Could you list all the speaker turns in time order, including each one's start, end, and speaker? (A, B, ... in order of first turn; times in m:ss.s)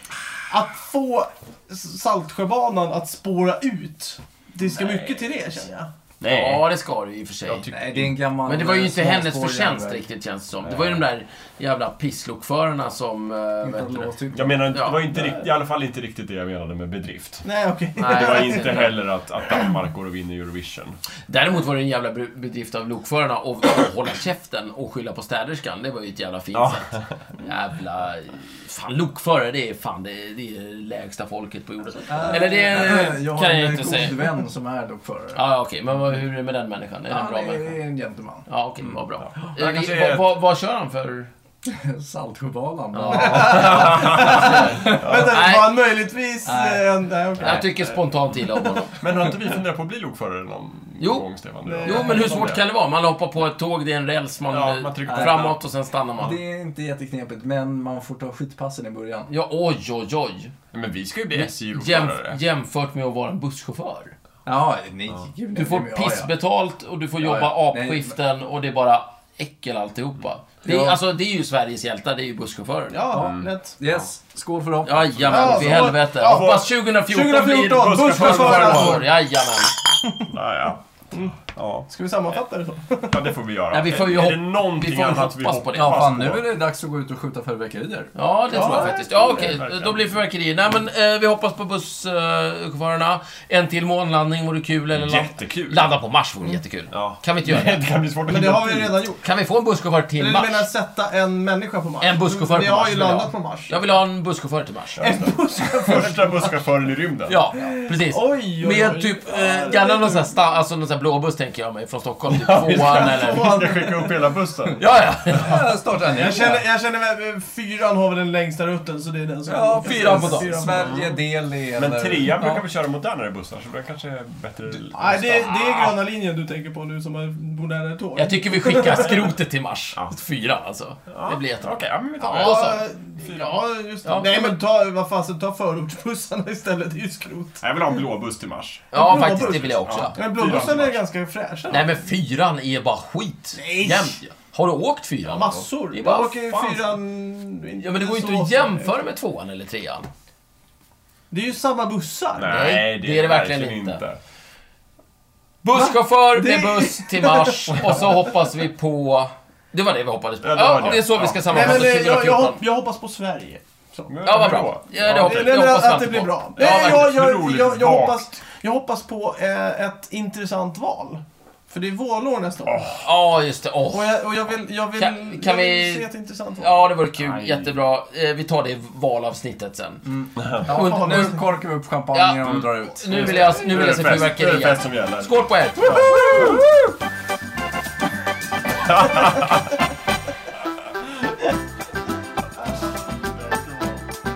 0:00.4-0:05.9 A
0:04.6-0:05.4 B
0:06.2-0:06.6 B
0:06.2-0:07.7 C
0:07.4-0:08.2 B
0:07.7-0:10.0 D
0:08.4-0:14.1 C
0:10.6-0:11.0 B
0:13.6-0:15.0 D
0:14.3-0:17.4 B
0:14.7-0:15.0 C
0:17.4-0:18.9 A
0:18.0-0:19.0 C
0:18.0-0:21.0 B
0:21.3-0:34.3 C
0:26.5-0:27.2 B
0:32.0-0:32.7 A
0:32.1-0:35.4 D
0:35.3-0:37.8 C
0:37.1-0:38.5 D
0:38.5-0:41.3 C
0:39.2-0:40.3 B
0:41.6-0:45.2 D
0:42.9-0:45.7 C
0:43.1-0:47.7 A
0:43.5-0:45.4 B
0:46.4-0:47.5 D
0:47.4-0:49.0 C
0:48.5-0:48.8 A
0:49.0-0:52.6 B
0:51.0-0:51.2 C
0:51.6-0:52.4 A
0:51.8-0:56.4 C
0:54.5-0:55.6 B
0:55.1-0:55.4 D
0:56.2-0:59.3 D
0:59.3-1:00.5 C
1:00.7-1:02.4 B
1:01.3-1:04.1 C
1:04.4-1:06.3 D
1:05.5-1:13.0 C
1:07.2-1:08.1 D
1:10.6-1:11.0 D
1:12.9-1:13.7 A
1:13.1-1:15.9 D
1:13.1-1:14.0 B
1:14.8-1:19.7 C
1:15.3-1:16.7 B
1:15.3-1:19.1 A
1:17.6-1:19.1 B
1:20.3-1:21.9 B
1:21.9-1:23.3 A
1:23.1-1:26.4 B
1:23.7-1:26.1 C
1:25.7-1:28.1 D
1:28.1-1:37.8 C
1:28.5-1:29.6 A
1:29.3-1:30.1 B
1:34.9-1:35.9 B
1:36.9-1:39.0 B
1:38.3-1:39.2 A
1:39.2-1:40.7 C
1:40.2-1:43.7 A
1:42.0-1:45.1 C
1:45.0-1:47.4 B
1:45.0-1:46.5 A
1:47.3-1:53.6 C
1:47.5-1:50.4 A
1:52.3-1:55.5 B
1:52.6-1:54.3 A
1:54.8-1:55.8 C
1:55.3-1:56.6 D
1:56.1-2:01.0 A
1:59.5-2:02.6 D
1:59.7-2:00.7 C
2:00.7-2:01.2 B
2:01.7-2:05.7 B
2:04.9-2:09.2 A
2:05.2-2:05.9 C
2:08.2-2:12.8 C
2:11.1-2:13.6 B
2:12.2-2:17.6 A
2:14.0-2:14.5 C
2:17.6-2:21.0 B
2:18.9-2:20.8 C
2:18.9-2:22.0 A
2:21.7-2:26.9 C
2:23.5-2:24.2 A
2:25.2-2:28.9 A
2:27.8-2:30.1 C
2:31.3-2:32.5 A
2:32.4-2:34.2 B
2:32.5-2:34.0 C
2:35.6-2:42.6 C
2:35.7-2:38.3 A
2:40.4-2:42.0 B
2:41.5-2:53.0 A
2:44.1-2:45.8 B
2:44.2-2:47.1 C
2:46.6-2:48.3 B
2:52.6-2:53.0 B
2:53.0-2:56.0 C
2:53.9-2:56.9 A
2:56.6-3:00.0 C
2:57.2-2:57.7 B
3:00.0-3:03.6 D
3:00.4-3:00.7 B
3:00.6-3:01.5 C
3:00.8-3:01.3 A
3:02.1-3:06.6 C
3:02.4-3:06.7 B
3:06.1-3:06.5 D
3:08.8-3:09.8 B
3:13.4-3:14.0 B